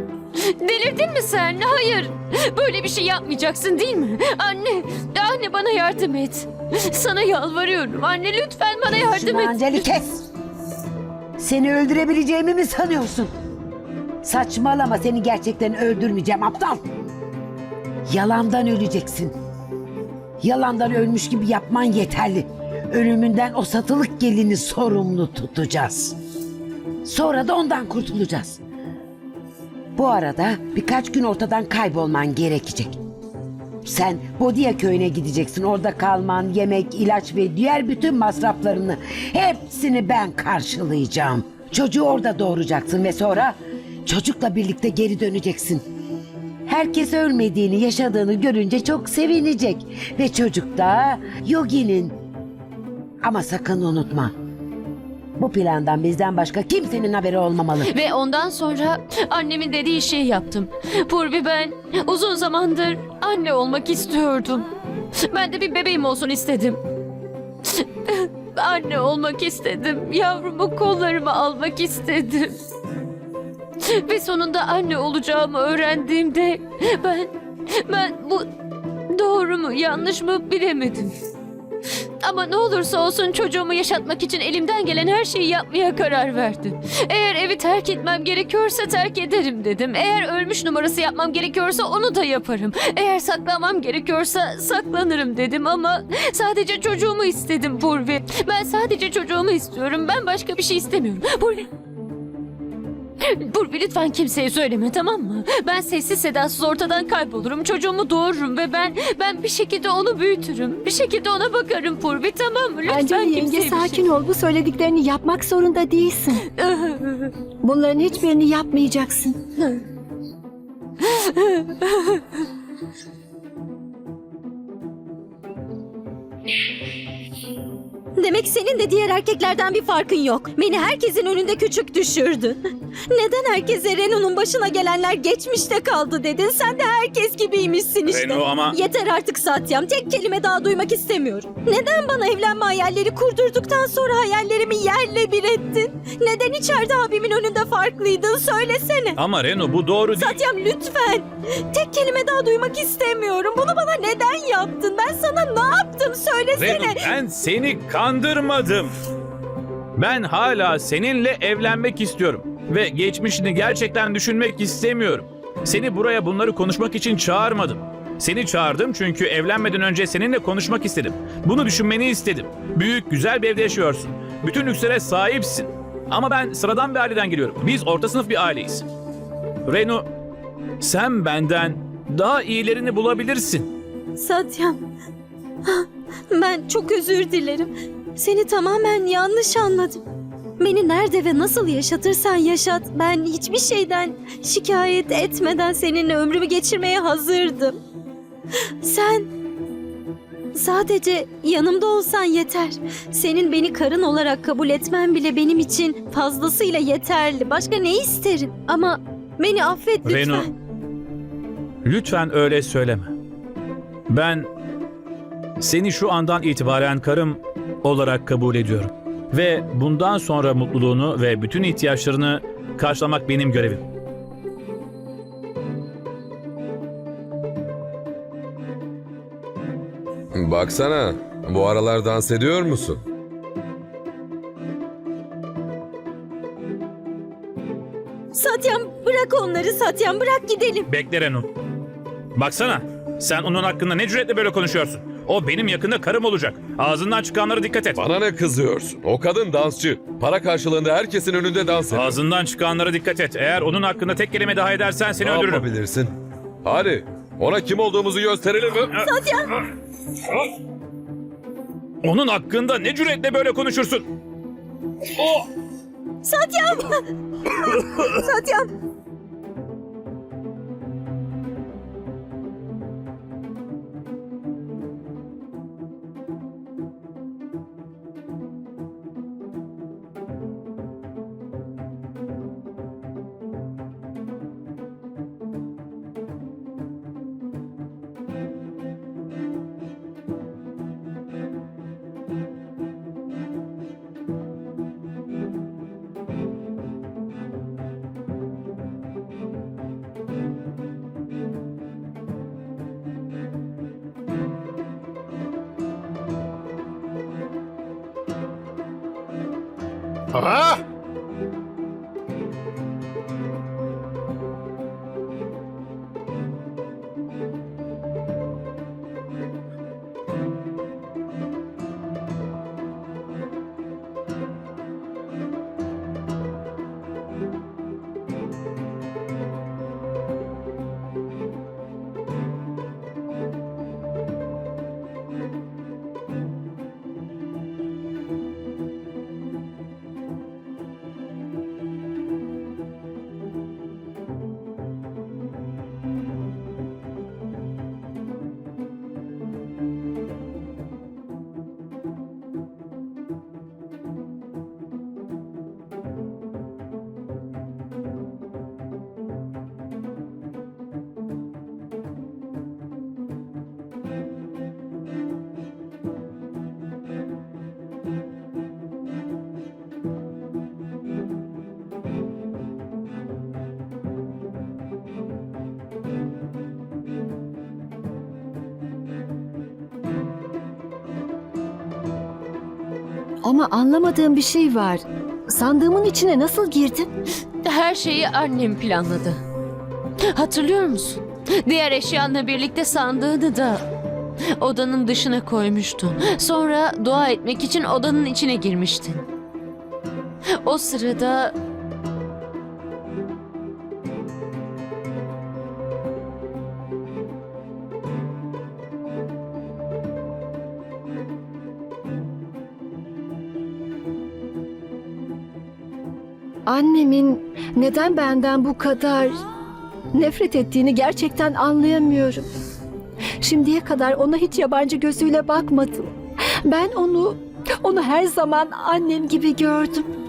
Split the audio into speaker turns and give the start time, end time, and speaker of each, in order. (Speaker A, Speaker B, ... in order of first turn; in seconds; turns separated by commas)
Speaker A: 0.4-9.8, Speaker B: 8.9-10.3, Speaker B: 11.4-13.3, Speaker B: 14.2-16.8, Speaker B: 18.1-19.3, Speaker B: 20.4-26.1, Speaker B: 27.0-28.6, Speaker B: 29.9-33.0, Speaker B: 33.8-45.8, Speaker B: 46.6-52.1, Speaker B: 53.2-54.3, Speaker B: 55.4-57.9, Speaker A: 57.9-66.8, Speaker A: 67.8-72.6, Speaker A: 73.8-78.5, Speaker A: 79.1-81.1, Speaker A: 82.2-101.7, Speaker A: 103.3-114.0, Speaker C: 112.8-116.4, Speaker A: 116.4-117.3, Speaker C: 117.6-119.4, Speaker A: 121.0-122.2, Speaker D: 128.2-149.2, Speaker E: 138.1-138.8, Speaker E: 149.2-150.4, Speaker D: 150.2-157.0, Speaker E: 156.5-158.9, Speaker E: 160.0-178.8, Speaker E: 179.7-180.1, Speaker E: 180.8-183.7, Speaker D: 184.2-184.8, Speaker D: 185.6-190.0, Speaker D: 190.6-197.8, Speaker D: 198.8-199.3, Speaker D: 200.5-210.5, Speaker E: 210.0-210.5, Speaker E: 211.8-213.1, Speaker E: 214.1-214.5, Speaker E: 215.6-223.8, Speaker F: 230.3-233.0, Speaker D: 238.3-240.8, Speaker E: 240.9-241.4, Speaker E: 242.3-248.0, Speaker F: 248.0-252.2, Speaker E: 251.9-255.7, Speaker F: 255.2-256.1, Speaker F: 256.6-258.9, Speaker D: 259.0-259.5, Speaker E: 262.0-264.0, Speaker D: 266.2-268.7, Speaker C: 383.4-387.1, Speaker A: 387.6-389.4, Speaker A: 390.3-393.8, Speaker A: 394.6-399.2, Speaker A: 400.6-401.5, Speaker C: 416.6-419.4, Speaker C: 420.1-422.4, Speaker C: 423.4-426.1, Speaker C: 426.6-430.1